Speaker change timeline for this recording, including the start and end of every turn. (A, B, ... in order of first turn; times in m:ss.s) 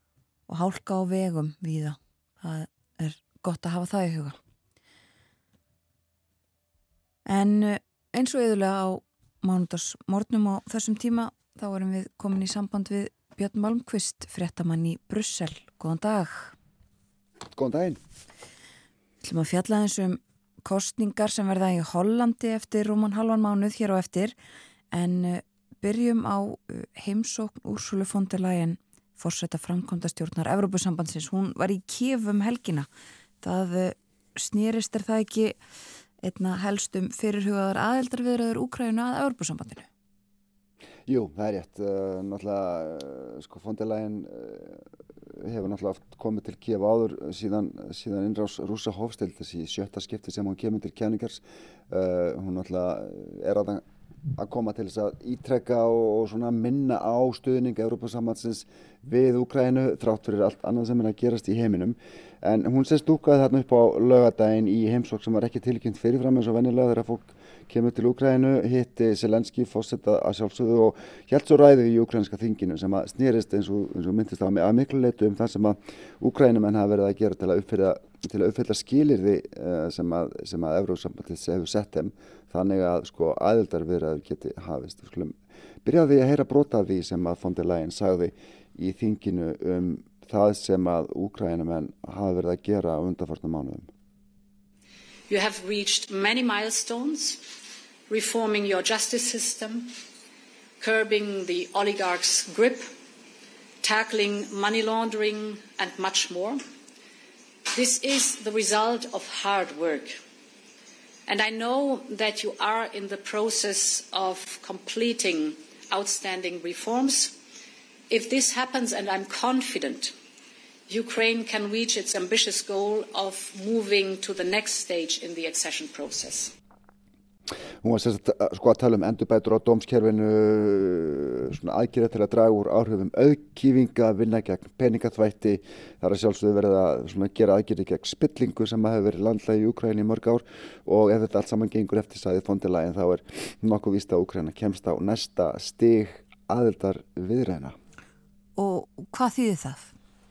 0:00.5-0:04.4 A
0:07.2-0:16.5 A
0:17.5-0:18.0 B
0:19.2-0:24.3 A
0:24.9-0:32.9 A
0:33.4-0:35.6 A
0:36.2-0:39.9 A
0:41.1-0:44.8 B
0:45.4-0:53.8 B
0:54.4-1:33.9 B
1:35.3-1:37.4 C
1:38.1-1:39.9 C
1:40.8-1:42.9 C
1:43.8-1:46.6 C
1:47.7-1:50.2 C
1:51.3-1:57.4 C
1:58.1-2:00.1 C
2:00.9-2:06.5 C
2:07.8-2:27.8 B
2:28.6-2:29.9 A